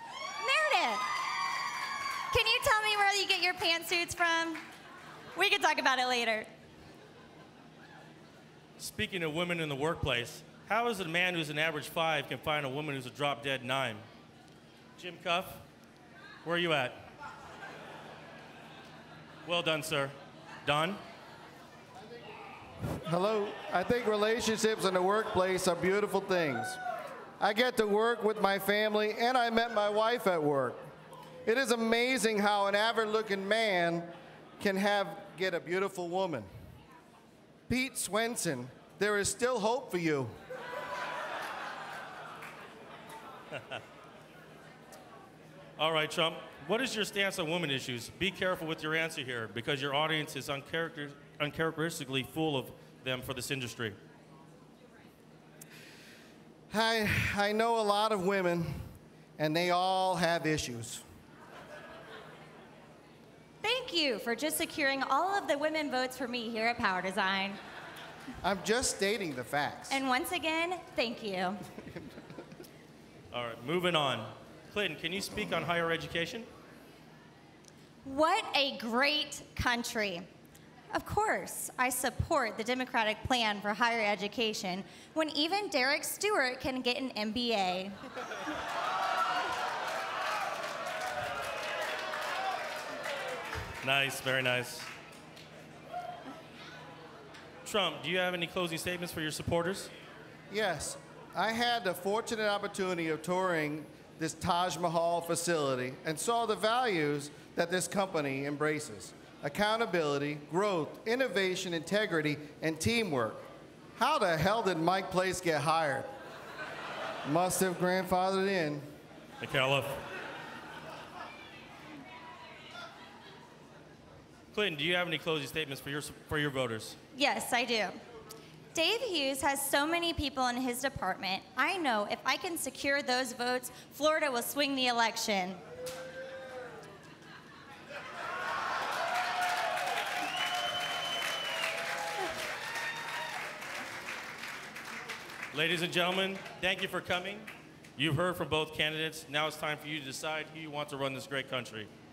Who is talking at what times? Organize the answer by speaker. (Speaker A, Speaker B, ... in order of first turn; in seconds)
Speaker A: 0.4-1.1, 2.3-4.6, 5.3-6.5, 63.6-67.6, 69.9-71.7, 78.0-80.3, 80.9-88.0, 127.2-128.0, 128.7-135.6
Speaker B: 8.8-14.0, 15.0-15.7, 16.4-17.0, 19.4-21.0, 45.8-54.0, 73.3-76.5, 93.8-94.9, 97.6-99.9, 119.4-120.0, 124.5-127.0, 145.5-151.9
Speaker C: 22.8-26.8, 27.4-30.9, 31.4-36.5, 37.7-40.3, 56.7-58.9, 59.4-61.0, 68.4-70.0, 100.5-113.5, 114.0-116.1, 117.2-118.8